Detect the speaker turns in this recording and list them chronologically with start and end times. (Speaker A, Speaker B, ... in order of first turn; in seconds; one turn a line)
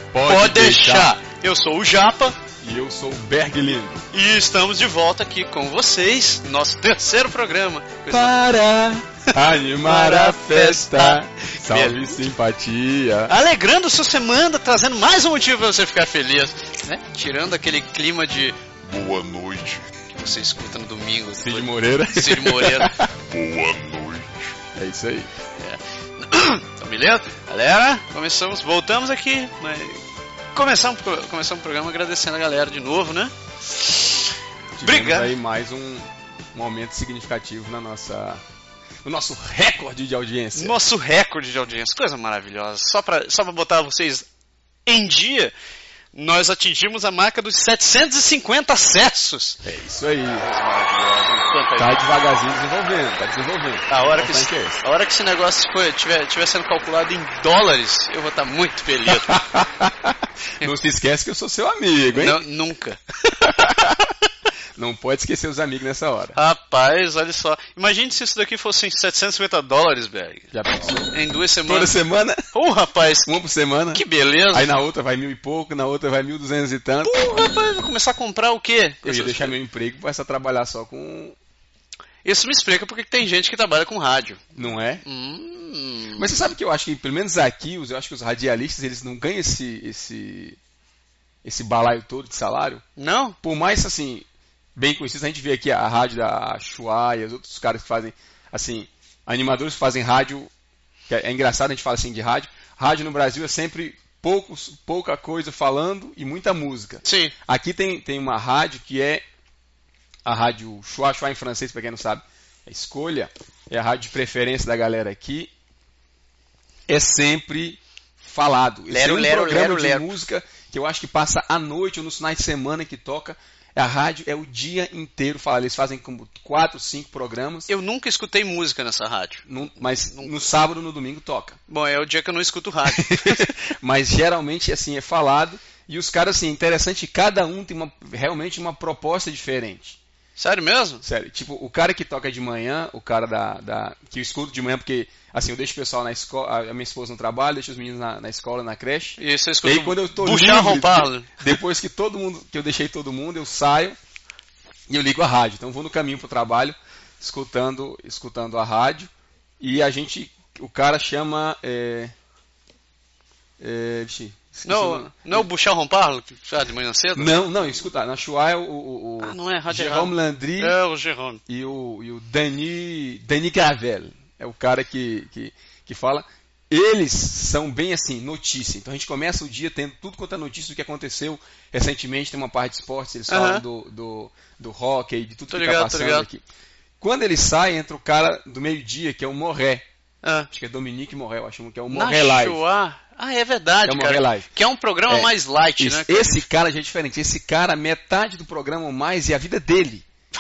Speaker A: 0.1-1.1
Speaker B: 0.2-2.4
Speaker A: 2.6-4.0
Speaker B: 4.1-8.5
Speaker A: 8.1-13.3
Speaker B: 9.8-12.2
Speaker B: 13.3-18.6
Speaker C: 18.8-19.9
Speaker B: 20.1-22.9
Speaker A: 21.4-23.1
Speaker C: 23.3-24.5
Speaker A: 24.8-25.3
Speaker B: 25.6-30.0
Speaker B: 30.5-35.3
Speaker A: 34.8-38.4
Speaker A: 39.0-40.8
Speaker B: 40.5-44.3
Speaker B: 44.9-45.5
Speaker B: 46.1-49.6
Speaker A: 49.6-50.5
Speaker B: 50.4-52.0
Speaker A: 51.8-54.8
Speaker B: 53.9-59.4
Speaker A: 59.1-62.4
Speaker B: 62.1-63.0
Speaker A: 63.4-64.0
Speaker A: 64.8-66.4
Speaker B: 66.3-70.5
Speaker A: 70.5-71.1
Speaker B: 71.1-71.9
Speaker A: 71.7-72.4
Speaker B: 72.5-73.3
Speaker A: 73.3-77.4
Speaker B: 73.9-74.7
Speaker B: 77.0-79.5
Speaker A: 79.0-81.4
Speaker B: 82.2-84.4
Speaker A: 84.5-85.0
Speaker B: 85.0-86.5
Speaker A: 86.2-90.6
Speaker A: 91.4-92.8
Speaker B: 93.0-93.4
Speaker A: 93.4-100.5
Speaker A: 101.1-109.2
Speaker B: 107.0-107.3
Speaker A: 110.2-115.5
Speaker A: 116.9-127.7
Speaker B: 118.9-120.1
Speaker B: 127.7-130.5
Speaker A: 129.5-131.6
Speaker B: 131.7-133.5
Speaker A: 132.9-140.0
Speaker B: 140.4-141.0
Speaker A: 141.0-154.0
Speaker B: 149.2-151.3
Speaker A: 154.9-162.1
Speaker A: 163.6-165.5
Speaker B: 164.7-167.4
Speaker A: 167.2-170.8
Speaker B: 169.2-171.4
Speaker A: 171.5-186.4
Speaker B: 183.3-183.7
Speaker B: 185.5-186.3
Speaker A: 187.0-189.8
Speaker B: 190.2-190.5
Speaker A: 190.5-192.6
Speaker B: 191.9-196.4
Speaker A: 193.8-194.5
Speaker A: 195.1-200.1